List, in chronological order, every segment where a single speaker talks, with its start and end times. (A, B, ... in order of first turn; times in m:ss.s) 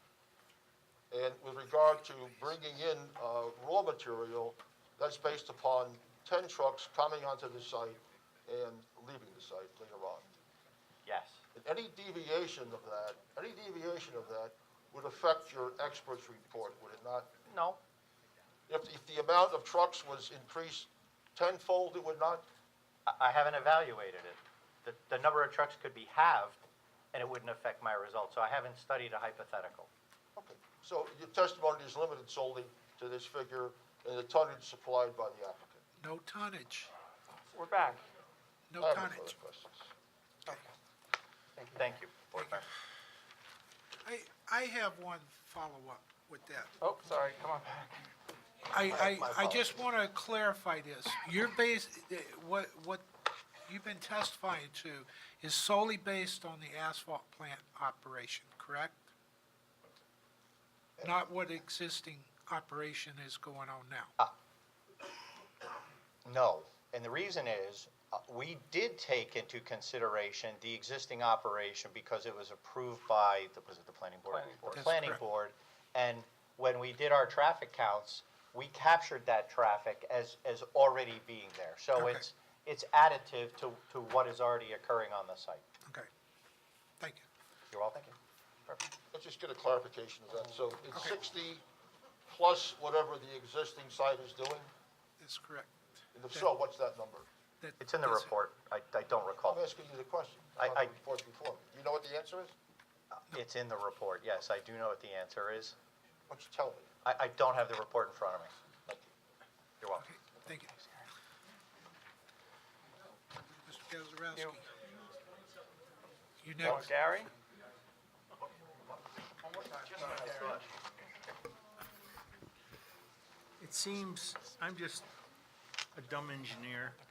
0:01.1-0:10.3 A
0:11.0-0:11.4 B
0:11.6-0:17.3 A
0:17.5-0:17.8 B
0:18.7-0:22.5 A
0:23.1-0:26.6 B
0:27.1-0:29.9 B
0:30.4-0:35.8 A
0:36.0-0:36.9 C
0:37.5-0:38.1 D
0:38.7-0:39.3 C
0:38.8-0:39.9 A
0:41.7-0:42.7 B
0:44.0-0:46.7 C
0:46.8-0:48.1 D
0:48.7-0:53.0 C
0:48.9-0:49.8 B
0:53.7-0:59.0 C
1:01.0-1:04.1 C
1:06.2-1:25.6 B
1:14.3-1:14.7 D
1:14.8-1:15.2 C
1:22.0-1:22.2 C
1:27.0-1:27.3 C
1:27.7-1:28.2 B
1:29.1-1:31.6 A
1:32.3-1:34.7 A
1:35.2-1:35.7 C
1:36.1-1:37.3 A
1:37.6-1:38.3 C
1:37.8-1:39.6 B
1:39.4-1:42.5 A
1:40.6-1:41.0 B
1:43.2-1:45.8 B
1:46.3-1:46.9 A
1:47.0-1:48.6 B
1:49.8-1:50.1 B
1:50.0-1:50.9 C
1:53.6-1:54.7 C
1:56.4-1:56.9 C
1:56.6-1:57.3 D
1:59.9-2:00.5 D
2:03.6-2:05.1 E
2:06.0-2:07.0 E